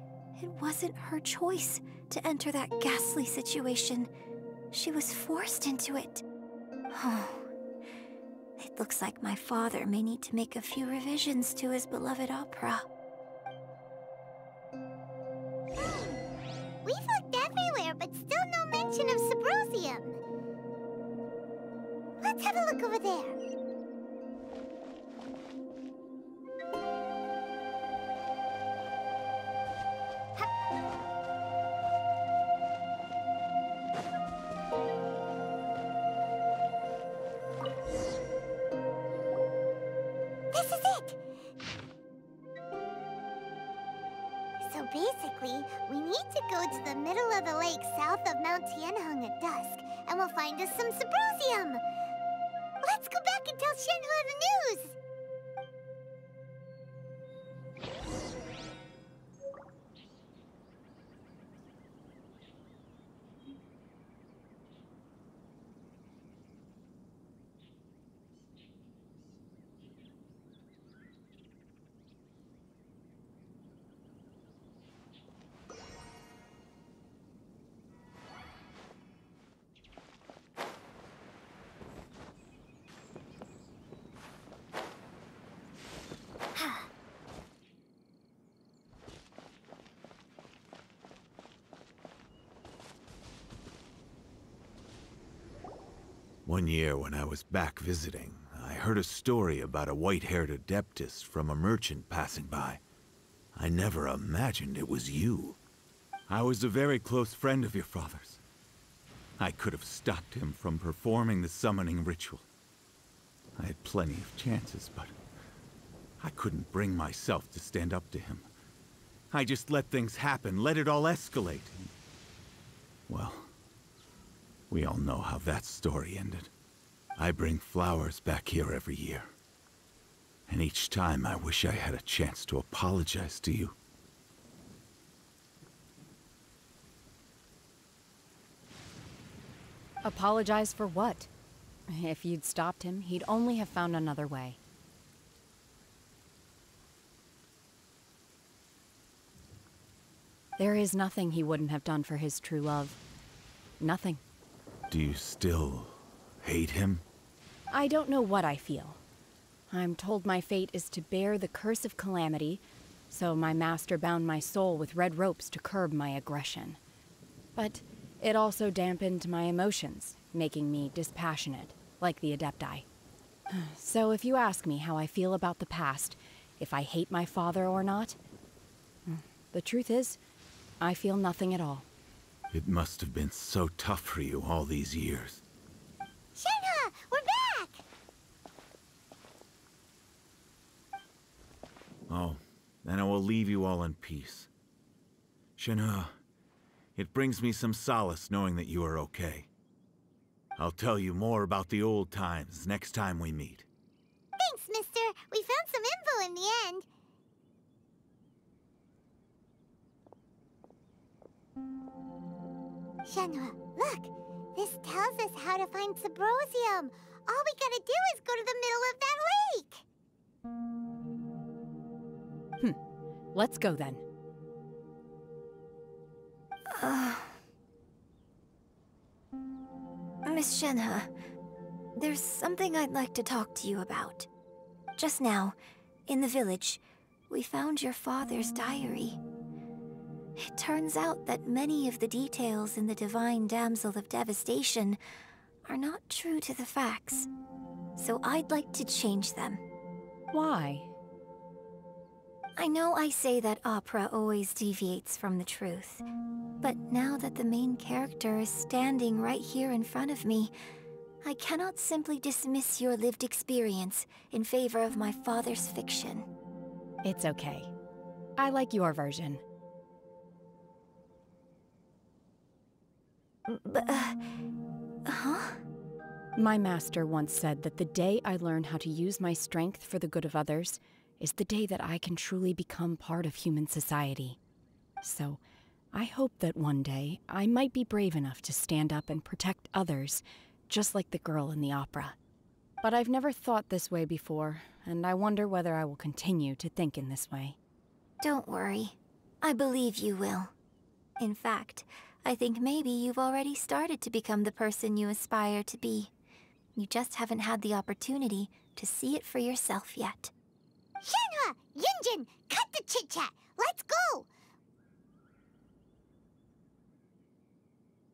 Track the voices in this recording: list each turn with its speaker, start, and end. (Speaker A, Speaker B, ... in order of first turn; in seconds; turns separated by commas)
Speaker A: 0.3-4.1, Speaker A: 4.7-6.2, Speaker A: 6.9-7.5, Speaker A: 8.6-12.8, Speaker B: 15.7-16.2, Speaker B: 16.8-20.2, Speaker B: 22.2-23.4, Speaker B: 40.5-41.2, Speaker B: 44.6-51.8, Speaker B: 52.8-55.0, Speaker B: 86.6-86.8, Speaker C: 96.4-102.8, Speaker C: 103.5-105.6, Speaker C: 106.3-108.4, Speaker C: 109.4-112.5, Speaker C: 113.6-115.1, Speaker C: 116.2-118.5, Speaker C: 119.3-121.8, Speaker C: 123.1-123.5, Speaker C: 124.7-126.5, Speaker C: 127.2-129.3, Speaker C: 130.5-133.8, Speaker D: 140.0-141.3, Speaker D: 141.9-144.6, Speaker D: 150.6-153.0, Speaker D: 153.8-154.2, Speaker C: 154.9-157.0, Speaker D: 157.7-159.0, Speaker D: 159.7-166.8, Speaker D: 167.5-172.8, Speaker D: 173.5-178.2, Speaker D: 179.1-180.2, Speaker D: 180.8-181.9, Speaker C: 182.5-185.4, Speaker B: 186.3-187.8, Speaker C: 192.1-194.5, Speaker C: 195.6-196.1, Speaker C: 196.9-199.5, Speaker C: 200.6-203.7, Speaker B: 204.4-206.9, Speaker B: 213.0-219.8, Speaker D: 223.3-224.0, Speaker A: 226.7-227.4, Speaker A: 230.2-231.1, Speaker A: 231.9-234.3, Speaker A: 235.0-235.6, Speaker A: 236.1-239.2, Speaker A: 240.4-245.0, Speaker A: 245.7-247.3, Speaker A: 247.9-249.6, Speaker D: 250.3-250.9, Speaker A: 252.6-256.0, Speaker A: 256.6-260.5, Speaker A: 261.2-266.3, Speaker D: 267.0-267.7, Speaker D: 268.4-269.4, Speaker A: 273.5-274.2, Speaker A: 275.1-275.6, Speaker D: 276.4-284.4, Speaker D: 285.0-285.4, Speaker D: 285.9-292.2, Speaker D: 292.8-297.6, Speaker A: 298.2-300.5, Speaker A: 301.2-306.1, Speaker A: 306.8-310.3, Speaker B: 311.0-314.3